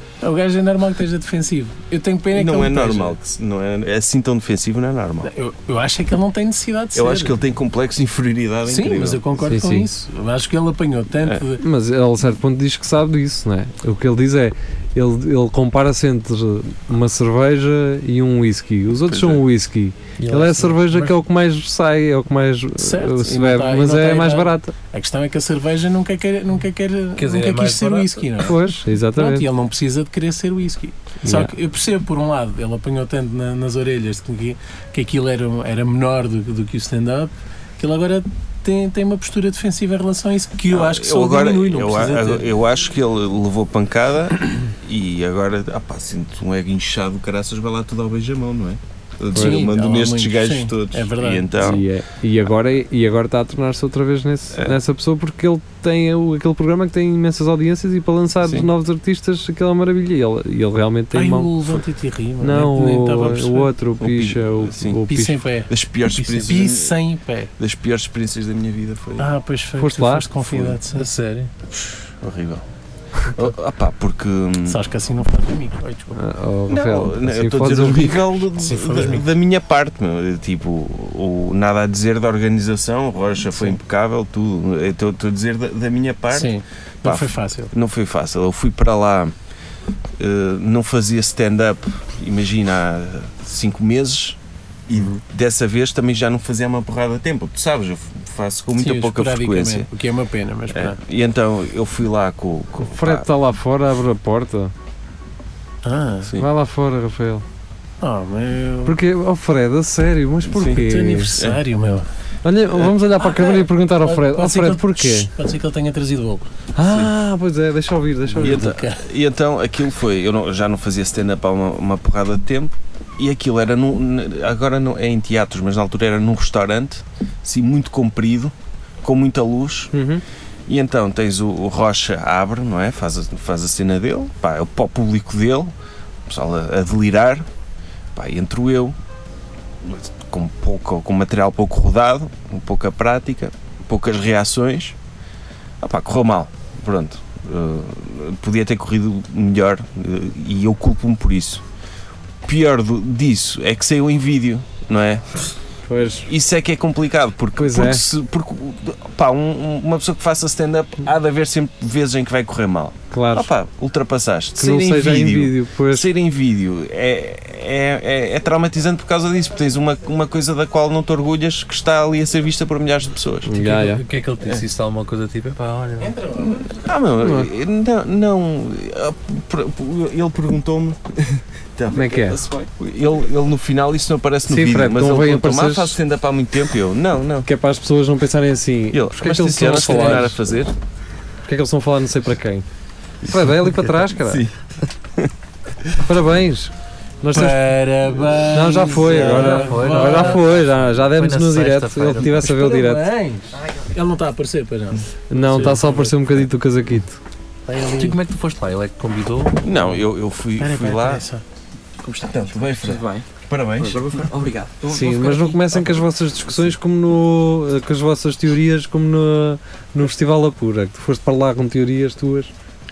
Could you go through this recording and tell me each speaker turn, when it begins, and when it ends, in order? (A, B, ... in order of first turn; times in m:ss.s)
0:00.2-0:03.2 A
0:02.3-0:05.3 B
0:05.2-0:07.3 A
0:06.9-0:09.2 B
0:08.6-0:11.6 A
0:09.5-0:09.9 C
0:11.6-0:24.7 C
0:19.1-0:19.4 B
0:20.2-0:20.9 D
0:22.8-0:28.6 A
0:27.2-0:28.5 D
0:28.4-0:29.5 C
0:29.1-0:42.5 A
0:31.2-0:31.5 C
0:40.7-0:51.8 B
0:49.3-0:49.7 C
0:49.3-0:51.8 A
0:51.6-1:01.5 C
1:01.1-1:03.7 A
1:02.4-1:05.4 C
1:04.0-1:05.0 B
1:05.1-1:07.5 A
1:05.7-1:07.0 B
1:07.6-1:09.3 B
1:09.2-1:11.1 A
1:09.8-1:10.3 C
1:10.4-1:10.8 B
1:10.9-1:11.5 D
1:12.2-1:12.6 B
1:13.3-1:14.8 B
1:14.7-1:16.2 A
1:16.2-1:18.4 C
1:16.7-1:29.3 B
1:18.6-1:19.3 A
1:23.5-1:23.8 A
1:26.3-1:27.7 A
1:30.2-1:39.9 B
1:34.9-1:35.2 A
1:38.8-1:41.0 A
1:40.7-1:43.2 B
1:42.9-1:44.7 C
1:45.8-1:46.3 A
1:46.4-1:47.4 C
1:48.0-1:49.0 A
1:48.8-1:51.3 C
1:50.5-1:50.8 B
1:50.7-1:52.1 A
1:52.4-1:55.3 C
1:53.2-1:56.5 A
1:56.7-1:58.7 C
1:56.8-1:57.1 B
1:58.3-1:59.0 A
1:58.3-2:09.9 B
2:09.9-2:10.2 C
2:10.7-2:15.7 B
2:16.3-2:17.5 B
2:18.1-2:19.0 B
2:19.8-2:25.0 B
2:25.8-2:31.6 B
2:32.4-2:35.5 B
2:35.9-2:36.3 C
2:36.2-2:53.6 B
2:37.6-2:38.0 C
2:43.1-2:43.5 C
2:44.6-2:46.1 C
2:53.4-2:54.0 C
2:53.6-2:56.2 D
2:56.0-2:56.8 A
2:56.4-3:07.5 B
2:57.2-2:57.5 C
3:01.9-3:02.4 C
3:02.3-3:02.7 E
3:04.4-3:06.0 C
3:07.4-3:10.5 C
3:08.9-3:10.7 B
3:09.7-3:10.2 A
3:11.4-3:12.6 C
3:13.2-3:14.4 C
3:14.1-3:14.5 B
3:16.0-3:17.7 C
3:17.3-3:20.4 A
3:18.5-3:23.0 C
3:19.1-3:19.6 B
3:19.2-3:22.4 D
3:22.3-3:26.2 A
3:25.3-3:27.2 C
3:27.6-3:28.2 A
3:27.9-3:29.9 D
3:29.6-3:31.2 B
3:30.6-3:31.4 A
3:32.0-3:35.8 E
3:32.2-3:34.3 B
3:34.9-3:42.5 C